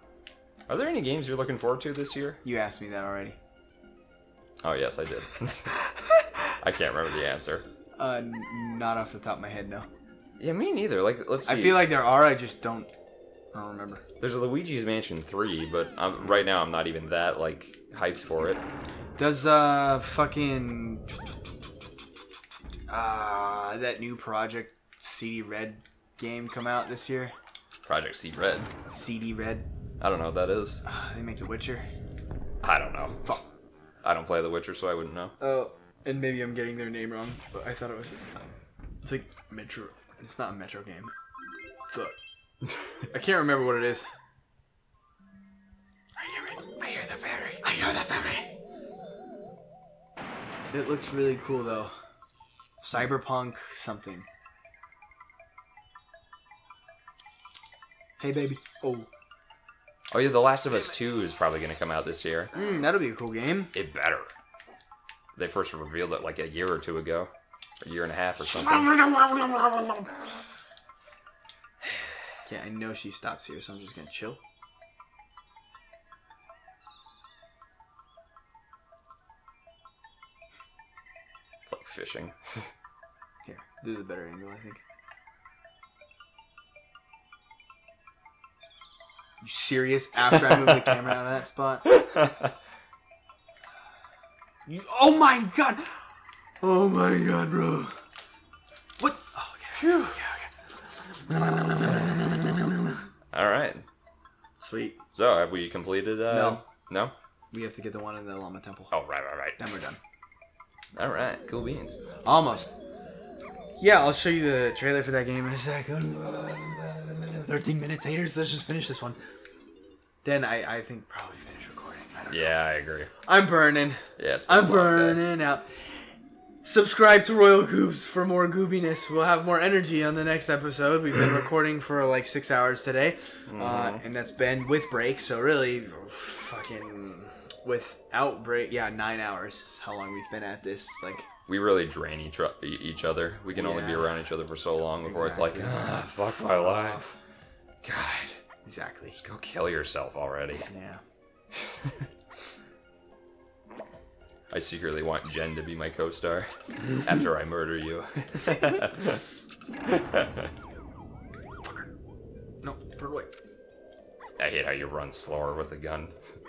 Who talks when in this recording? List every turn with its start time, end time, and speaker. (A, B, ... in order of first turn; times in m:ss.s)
0:00.7-0:02.4 A
0:02.4-0:03.4 B
0:04.6-0:05.7 A
0:06.0-0:06.4 B
0:06.6-0:07.6 A
0:08.0-0:09.9 B
0:10.4-0:11.9 A
0:11.4-0:12.9 B
0:13.5-0:14.0 B
0:14.2-0:18.6 A
0:19.2-0:21.3 B
0:22.9-0:27.3 B
0:27.8-0:28.7 A
0:28.9-0:29.7 B
0:30.0-0:30.8 A
0:30.8-0:31.8 B
0:32.6-0:33.4 A
0:34.0-0:35.3 A
0:35.4-0:38.2 B
0:39.0-0:41.1 B
0:41.9-0:42.2 B
0:43.1-0:44.1 B
0:46.2-0:46.8 B
0:46.8-0:47.5 A
0:47.4-0:48.5 B
0:50.7-0:51.9 B
0:52.8-0:54.2 B
0:58.2-0:59.1 B
1:00.1-1:02.5 A
1:02.5-1:03.7 B
1:03.7-1:04.3 A
1:05.4-1:07.3 A
1:07.8-1:09.0 A
1:08.4-1:10.1 B
1:12.4-1:14.4 B
1:21.6-1:22.7 A
1:23.4-1:24.8 B
1:29.4-1:31.9 B
1:30.3-1:30.7 A
1:31.9-1:32.5 A
1:34.7-1:38.0 B
1:39.0-1:43.0 B
1:43.3-1:43.8 A
1:44.6-1:45.0 B
1:45.1-1:47.1 A
1:46.3-1:46.6 B
1:47.5-1:48.9 B
1:48.9-1:49.8 A
1:49.6-1:50.0 B
1:51.0-1:52.0 A
1:52.2-1:52.7 B
1:53.8-1:59.2 B
2:00.2-2:02.6 B
2:02.3-2:03.1 A
2:03.2-2:06.0 B
2:04.2-2:05.2 A
2:06.6-2:21.3 B
2:13.5-2:14.0 A
2:21.5-2:27.1 A
2:23.5-2:24.2 B
2:25.0-2:27.1 B
2:27.8-2:28.4 A
2:28.6-2:29.2 B
2:29.2-2:30.7 A
2:30.7-2:31.0 B
2:31.5-2:32.0 A
2:34.5-2:39.3 A
2:39.8-2:40.5 A
2:42.6-2:43.3 B
2:44.4-2:46.1 A